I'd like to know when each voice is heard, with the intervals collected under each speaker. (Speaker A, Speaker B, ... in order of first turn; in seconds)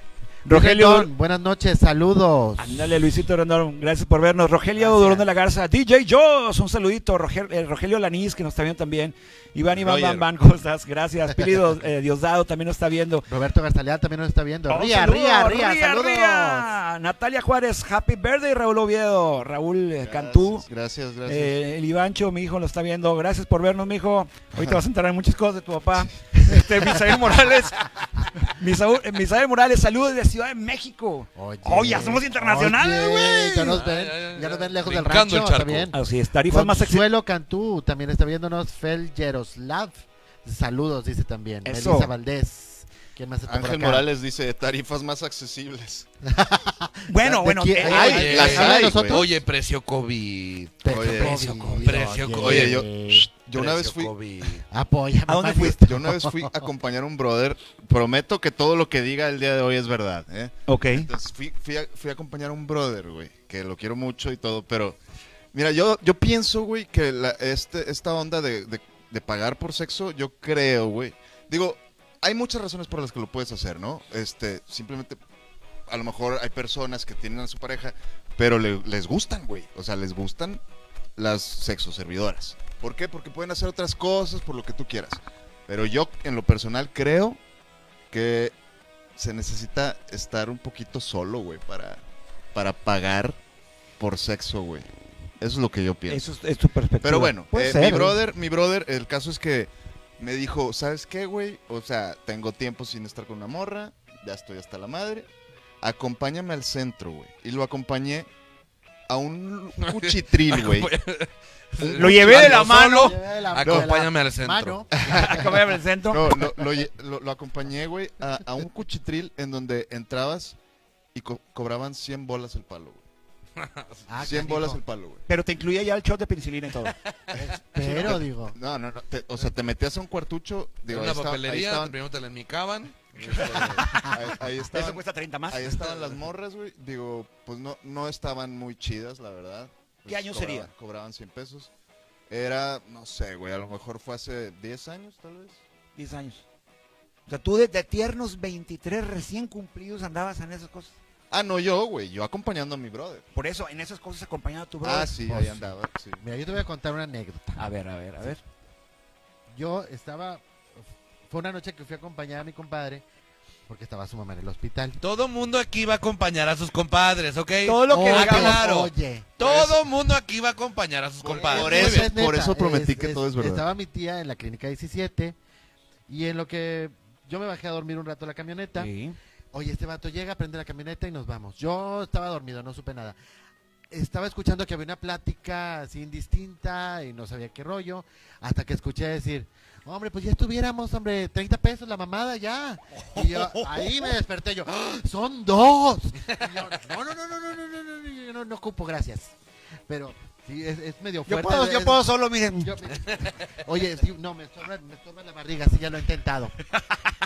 Speaker A: 0.5-1.1, 2.6-13.2, 14.7-20.6, 21.2-33.8, 35.9-37.0, 41.6-42.1, 47.1-48.6, 51.1-52.2, 55.3-55.8, 60.7-61.1, 96.1-98.2, 111.9-113.2, 115.1-116.5, 125.3-126.9, 134.7-136.1, 140.1-140.7, 145.9-146.4, 147.3-150.9, 153.3-155.2, 157.6-158.4, 167.7-168.6, 178.8-179.2, 193.0-194.1, 201.3-202.8
Speaker B: 0.5-2.9, 4.8-5.2, 13.3-16.7, 31.4-44.0, 46.2-49.3, 50.8-53.3, 54.7-56.7, 112.4-115.6, 124.1-124.8, 127.3-128.6, 133.9-134.1, 155.3-157.7, 159.5-160.4, 161.3-163.0, 163.7-165.0, 167.9-169.3, 171.5-175.4, 176.1-178.9, 179.5-183.2, 183.9-199.3, 199.9-202.1, 202.6-206.6
Speaker C: 9.7-10.3, 20.0-21.6, 43.4-46.1, 47.8-49.3, 50.9-51.4, 52.3-54.1, 55.8-65.0, 65.5-75.2, 75.9-80.6, 81.2-87.4, 88.1-88.5, 89.2-92.0, 92.5-93.4, 94.0-94.9, 95.4-96.3, 97.0-105.3, 105.8-108.3, 109.1-110.9, 111.8-112.7, 113.6-113.9, 115.1-115.4, 116.1-120.6, 121.1-123.0, 124.2-125.2, 127.3-131.9, 133.3-141.7, 142.3-145.6, 151.3-153.2, 154.8-156.2, 169.4-169.8, 171.2-173.7
Speaker D: 33.6-35.9, 47.8-52.9, 53.5-54.7, 109.8-114.8, 123.6-124.1, 130.9-133.9, 165.0-172.1, 203.0-203.3